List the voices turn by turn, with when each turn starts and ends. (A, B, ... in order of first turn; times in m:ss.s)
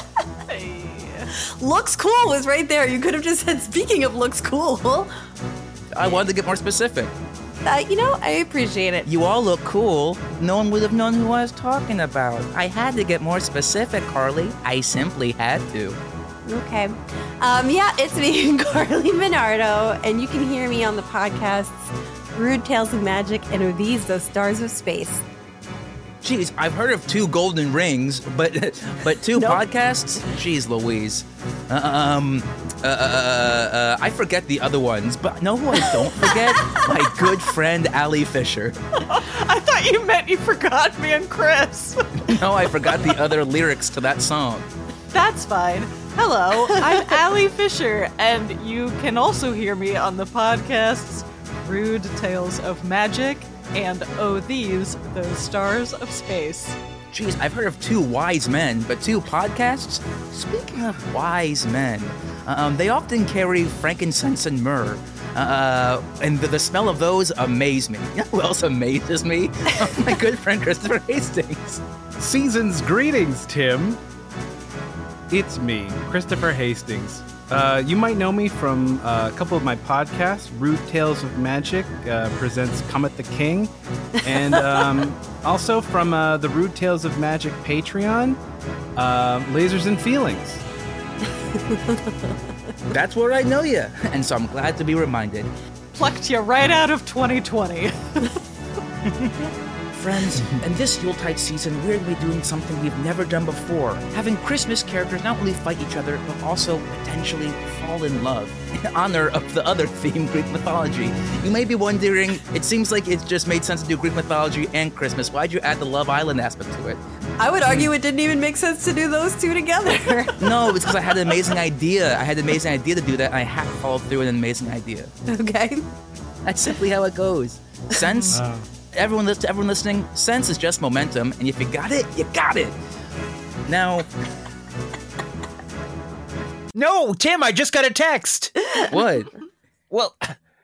0:00.5-0:01.3 A
0:01.6-0:05.1 B
0:05.9-0:07.2 C
0:07.6-0:09.1 B
0:09.1-0:16.0 C
0:16.5-0:25.2 B
0:26.2-0:38.8 C
0:29.4-0:29.7 B
0:39.1-0:42.4 A
0:42.3-0:44.7 C
0:45.1-0:56.8 A
0:57.1-1:11.8 C
1:12.2-1:14.0 D
1:15.3-1:23.7 D
1:24.2-1:28.4 D
1:29.0-1:30.6 D
1:31.6-1:32.2 B
1:32.9-1:35.5 C
1:35.9-1:38.4 A
1:40.0-1:57.0 C
1:57.4-2:00.4 B
2:00.4-2:05.1 C
2:05.3-2:05.8 B
2:06.4-2:12.8 C
2:08.3-2:08.6 D
2:13.7-2:14.1 C
2:16.7-2:18.5 E
2:18.9-2:19.3 C
2:19.9-2:20.4 E